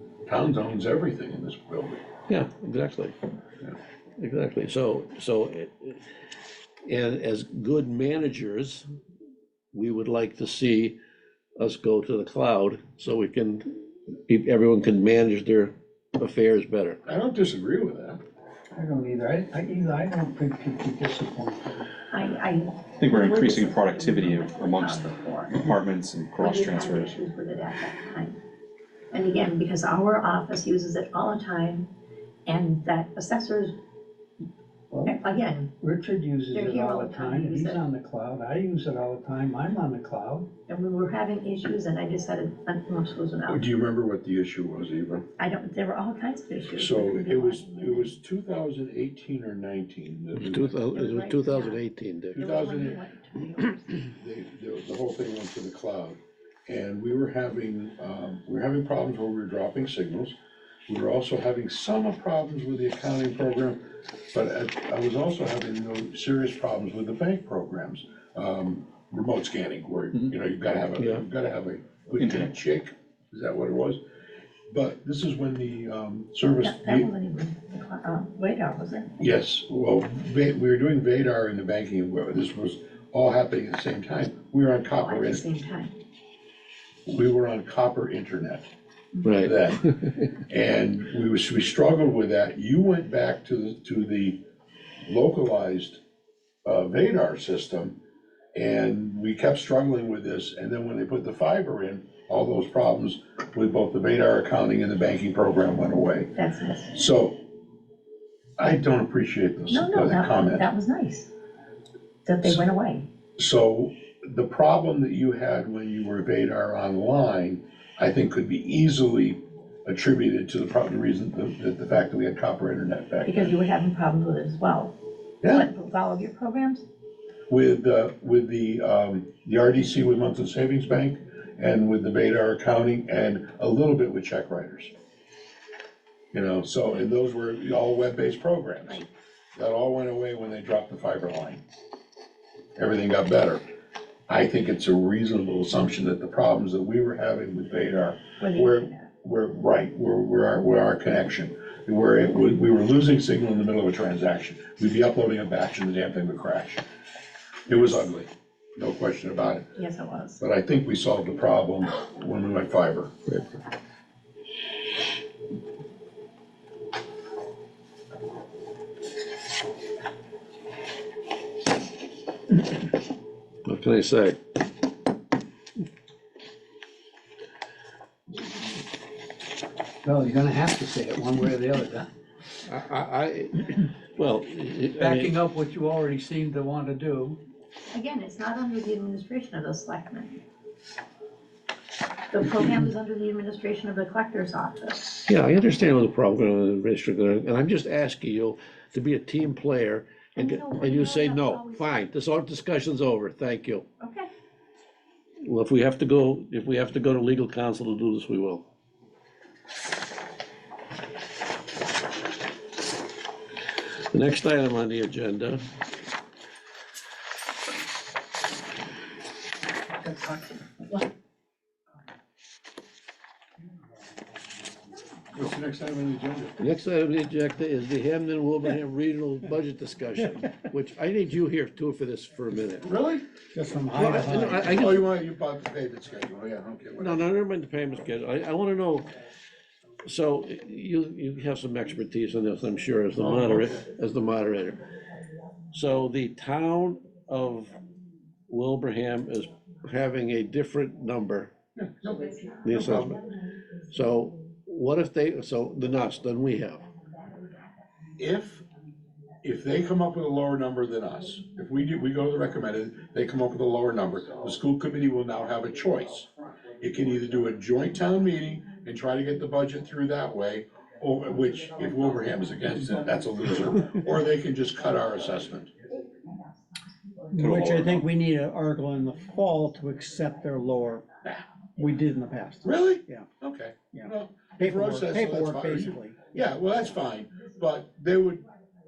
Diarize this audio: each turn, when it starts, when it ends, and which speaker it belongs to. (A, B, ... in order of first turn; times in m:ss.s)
0:00.3-0:02.0 A
0:02.3-0:03.1 B
0:04.2-0:06.0 B
0:06.8-0:08.8 B
0:09.7-0:10.9 B
0:11.6-0:13.7 B
0:14.3-0:17.0 B
0:17.0-0:18.2 A
0:18.7-0:21.9 C
0:22.1-0:25.7 D
0:23.0-0:27.1 E
0:26.4-0:28.4 D
0:29.1-0:31.9 D
0:32.4-0:33.8 D
0:34.9-0:35.2 C
0:35.0-0:35.7 D
0:35.8-0:40.5 C
0:36.5-0:37.8 D
0:40.7-0:43.6 D
0:43.5-0:45.2 A
0:45.4-0:48.1 D
0:46.7-0:50.9 A
0:50.3-0:52.4 B
0:50.9-0:51.8 D
0:52.3-0:53.0 A
0:52.4-0:54.0 D
0:54.1-1:00.4 A
1:00.9-1:03.8 A
1:04.3-1:14.0 A
1:11.0-1:11.2 B
1:12.2-1:12.5 E
1:14.7-1:17.1 A
1:16.6-1:19.2 D
1:19.2-1:25.4 A
1:24.9-1:25.9 D
1:27.1-1:28.7 A
1:29.2-1:30.1 B
1:29.4-1:29.8 A
1:30.5-1:34.4 A
1:35.0-1:36.0 A
1:36.6-1:38.0 A
1:38.5-1:46.3 A
1:46.4-1:46.9 D
1:46.9-1:47.4 A
1:48.6-1:50.7 A
1:49.7-1:51.3 D
1:52.2-1:53.0 D
1:53.4-2:03.5 A
2:03.2-2:04.9 D
2:05.4-2:05.7 A
2:05.5-2:06.8 D
2:07.5-2:14.9 A
2:16.3-2:19.0 A
2:19.5-2:21.6 A
2:22.8-2:23.6 A
2:24.3-2:36.8 A
2:28.4-2:29.1 D
2:37.7-2:39.7 A
2:39.8-2:40.4 D
2:40.4-2:43.3 A
2:53.6-2:54.4 B
3:00.0-3:02.1 C
3:02.7-3:05.4 B
3:05.0-3:07.4 C
3:07.9-3:10.4 D
3:12.3-3:15.2 D
3:15.3-3:23.8 B
3:20.4-3:22.0 D
3:24.0-3:24.3 D
3:25.4-3:28.6 B
3:34.1-3:35.6 B
3:40.0-3:40.6 C
3:45.3-3:46.6 A
3:46.6-3:52.9 B
3:52.8-3:53.2 A
3:53.5-3:54.7 C
3:53.9-3:55.0 B
3:54.4-3:57.2 A
3:57.0-3:59.1 B
4:00.0-4:04.8 B
4:05.7-4:07.8 B
4:08.5-4:11.5 B
4:11.8-4:13.1 A
4:12.6-4:13.2 B
4:13.9-4:16.8 B
4:18.2-4:18.6 A
4:19.4-4:35.7 A
4:37.3-4:41.1 C
4:37.4-4:38.0 E
4:41.8-4:43.3 C
4:42.6-4:48.5 A
4:43.9-4:46.3 C